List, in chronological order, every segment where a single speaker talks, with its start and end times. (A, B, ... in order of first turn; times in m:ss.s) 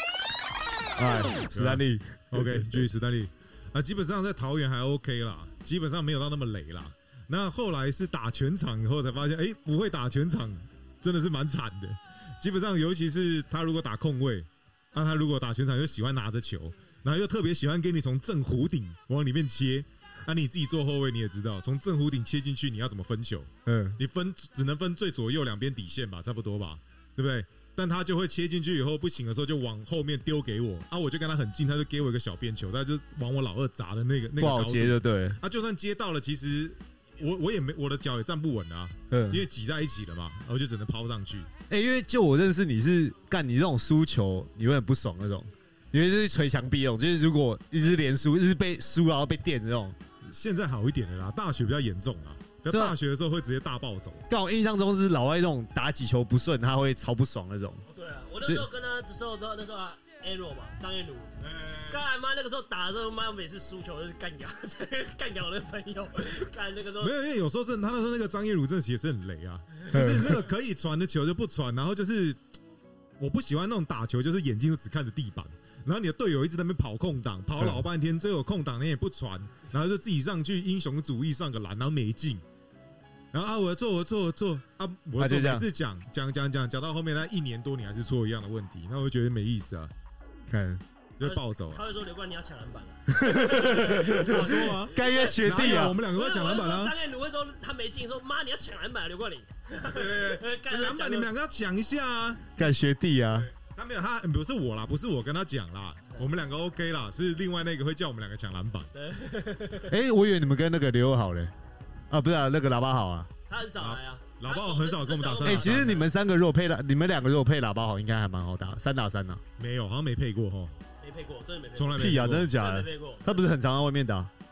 0:01.0-0:02.8 A
0:01.5-0:41.5 B
0:23.6-0:24.0 A
0:34.4-0:35.4 A
0:39.1-0:39.4 A
0:41.7-0:50.0 A
0:50.2-0:54.2 B
0:52.7-0:53.0 A
0:54.3-0:57.8 A
0:57.9-1:01.3 C
1:01.4-1:02.0 B
1:01.9-1:07.1 C
1:07.0-1:12.4 B
1:09.9-1:10.5 A
1:13.2-1:22.4 B
1:23.3-1:29.9 B
1:25.2-1:25.7 A
1:30.5-1:30.8 A
1:31.2-1:31.8 B
1:31.2-1:41.3 C
1:33.1-1:36.0 A
1:33.6-1:36.9 B
1:39.8-1:42.5 B
1:42.6-1:43.5 A
1:43.3-1:48.9 B
1:48.9-1:49.9 C
1:49.9-1:51.5 A
1:52.1-1:53.3 A
1:53.5-1:56.1 C
1:53.8-1:56.0 B
1:55.4-1:59.4 A
1:59.6-2:00.7 B
2:01.0-2:03.3 C
2:01.7-2:02.5 B
2:01.9-2:04.3 A